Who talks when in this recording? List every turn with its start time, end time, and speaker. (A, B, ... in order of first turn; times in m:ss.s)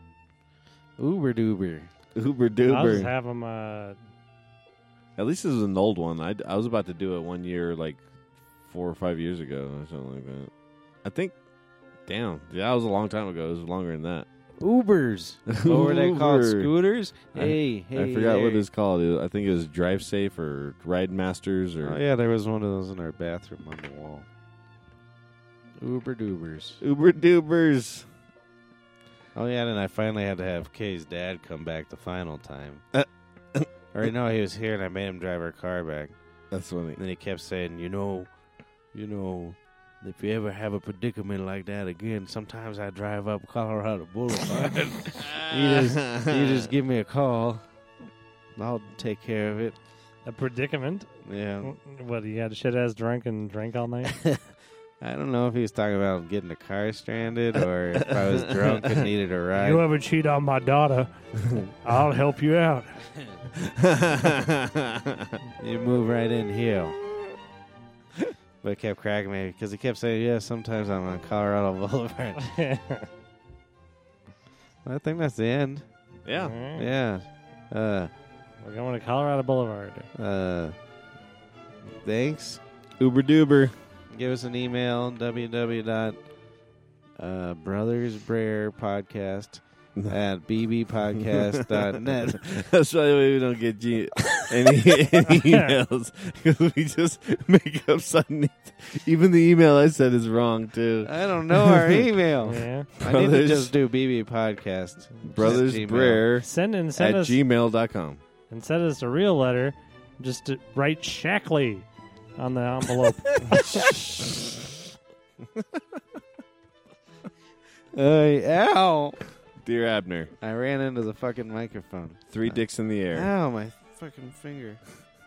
0:01.0-0:01.9 A
0:02.1-0:03.1 B
0:02.6-0:04.0 C
0:05.2-0:08.0 B
0:08.6-0:10.5 B
0:11.0-0:11.3 B
0:12.0-0:14.2 B
0:14.6-0:18.6 A
0:15.5-0:16.7 B
0:17.3-0:22.0 B
0:21.8-0:24.2 A
0:25.8-0:26.8 A
0:26.8-0:28.0 B
0:29.3-0:32.8 A
0:32.9-0:33.7 B
0:33.9-0:36.2 A
0:36.5-0:37.0 B
0:37.0-0:38.3 A
0:38.9-0:47.6 A
0:45.1-0:46.7 B
0:48.6-0:49.8 A
0:50.2-0:51.1 C
0:51.2-0:51.8 A
0:51.6-0:54.2 C
0:54.2-0:54.4 A
0:55.0-0:59.8 A
0:58.0-0:59.0 B
0:59.5-1:01.1 C
1:01.6-1:03.0 C
1:03.5-1:05.4 B
1:05.6-1:07.0 A
1:08.6-1:12.5 A
1:12.4-1:13.1 C
1:14.8-1:15.9 A
1:16.2-1:16.6 B
1:16.4-1:16.9 C
1:16.7-1:18.1 A
1:18.6-1:20.1 C
1:20.1-1:20.8 A
1:21.9-1:22.6 A
1:23.0-1:23.7 B
1:24.1-1:26.2 A
1:27.2-1:32.6 A
1:31.2-1:42.1 B
1:35.4-1:35.7 C
1:41.0-1:46.2 A
1:42.4-1:42.9 C
1:43.0-1:43.7 B
1:45.3-1:48.2 B
1:46.4-1:47.4 C
1:48.5-1:53.9 C
1:53.5-1:54.5 B
1:57.9-1:59.2 A
1:59.6-2:00.3 B
2:00.4-2:04.8 A
2:02.3-2:03.3 B